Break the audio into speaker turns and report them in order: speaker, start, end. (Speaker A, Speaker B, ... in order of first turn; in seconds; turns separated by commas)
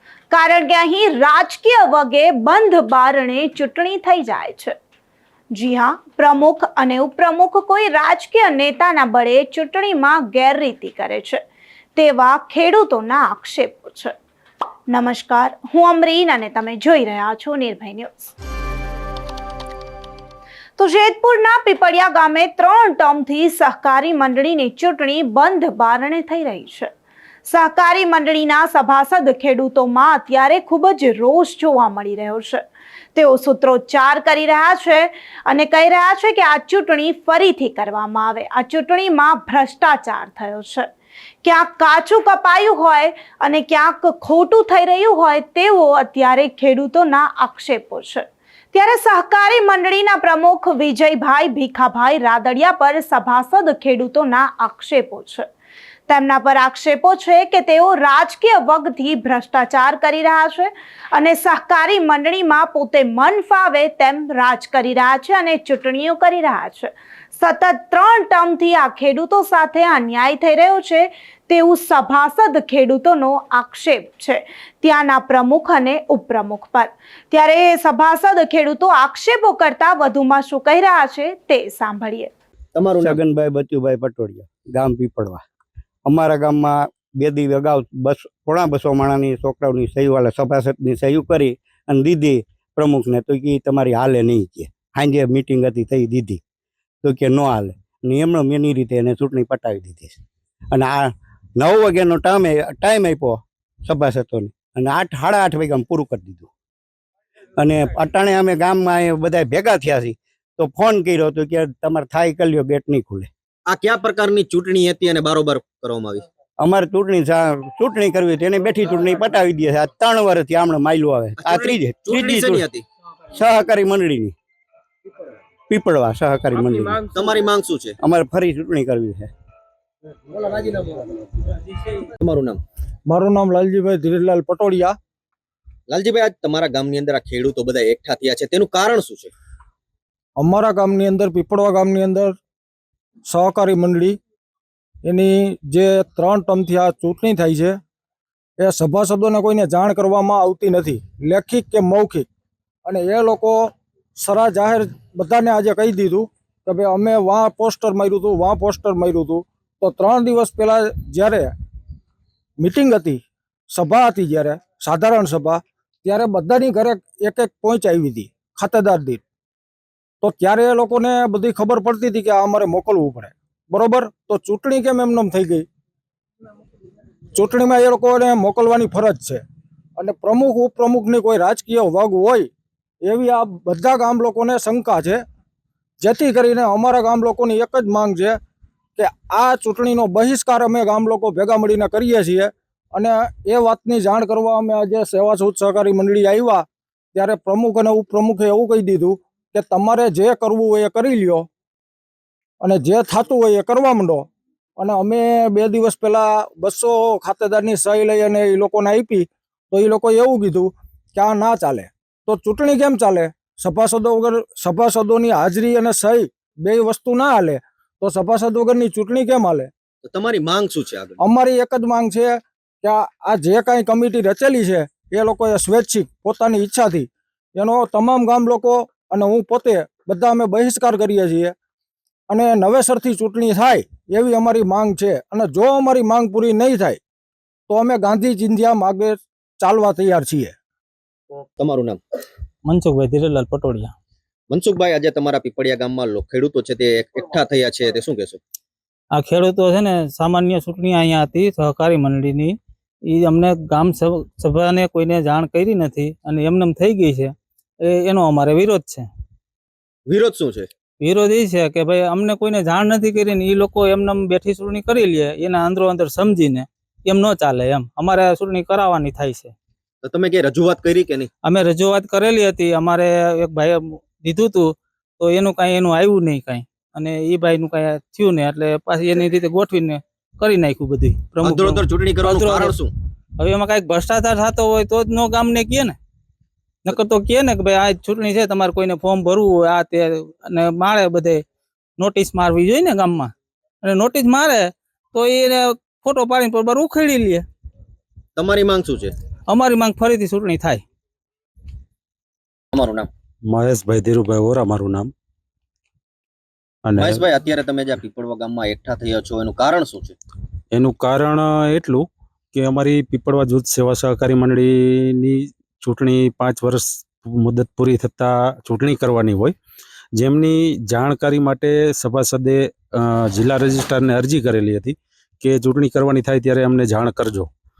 Speaker A: 0.3-4.7, Speaker A: 5.5-11.4, Speaker A: 11.9-14.1, Speaker A: 14.9-18.3, Speaker A: 20.8-26.9, Speaker A: 27.4-40.9, Speaker A: 41.4-55.5, Speaker A: 56.1-82.3, Speaker B: 82.7-83.2, Speaker C: 83.0-85.4, Speaker C: 86.1-96.4, Speaker C: 97.0-100.2, Speaker C: 100.7-106.5, Speaker C: 107.6-113.3, Speaker B: 113.7-116.2, Speaker C: 116.6-122.7, Speaker B: 121.4-122.8, Speaker C: 123.3-124.3, Speaker C: 125.7-127.1, Speaker B: 127.1-128.0, Speaker C: 128.0-129.3, Speaker B: 130.6-130.9, Speaker B: 132.2-132.6, Speaker D: 133.1-134.9, Speaker B: 135.9-139.3, Speaker D: 140.4-142.3, Speaker D: 143.3-144.2, Speaker D: 145.0-147.8, Speaker D: 148.6-152.3, Speaker D: 152.8-161.5, Speaker D: 162.6-169.2, Speaker D: 170.2-175.7, Speaker D: 177.3-179.4, Speaker D: 180.0-182.5, Speaker D: 183.0-185.2, Speaker D: 186.0-188.4, Speaker D: 189.0-201.5, Speaker D: 202.6-204.3, Speaker D: 204.8-219.7, Speaker B: 220.0-221.2, Speaker D: 221.2-231.5, Speaker D: 232.3-237.0, Speaker D: 237.7-240.5, Speaker B: 241.6-242.0, Speaker E: 242.7-243.9, Speaker B: 244.5-248.4, Speaker E: 249.2-252.6, Speaker E: 253.1-259.1, Speaker B: 260.1-260.7, Speaker E: 261.0-269.5, Speaker B: 270.0-271.3, Speaker E: 271.4-282.8, Speaker B: 281.4-282.9, Speaker E: 283.4-286.0, Speaker E: 286.9-291.4, Speaker E: 292.0-293.3, Speaker E: 293.8-297.4, Speaker B: 298.4-299.1, Speaker E: 299.5-300.8, Speaker B: 302.7-303.1, Speaker F: 303.4-305.1, Speaker F: 306.8-307.2, Speaker B: 306.9-310.1, Speaker F: 310.7-319.5, Speaker F: 320.1-327.5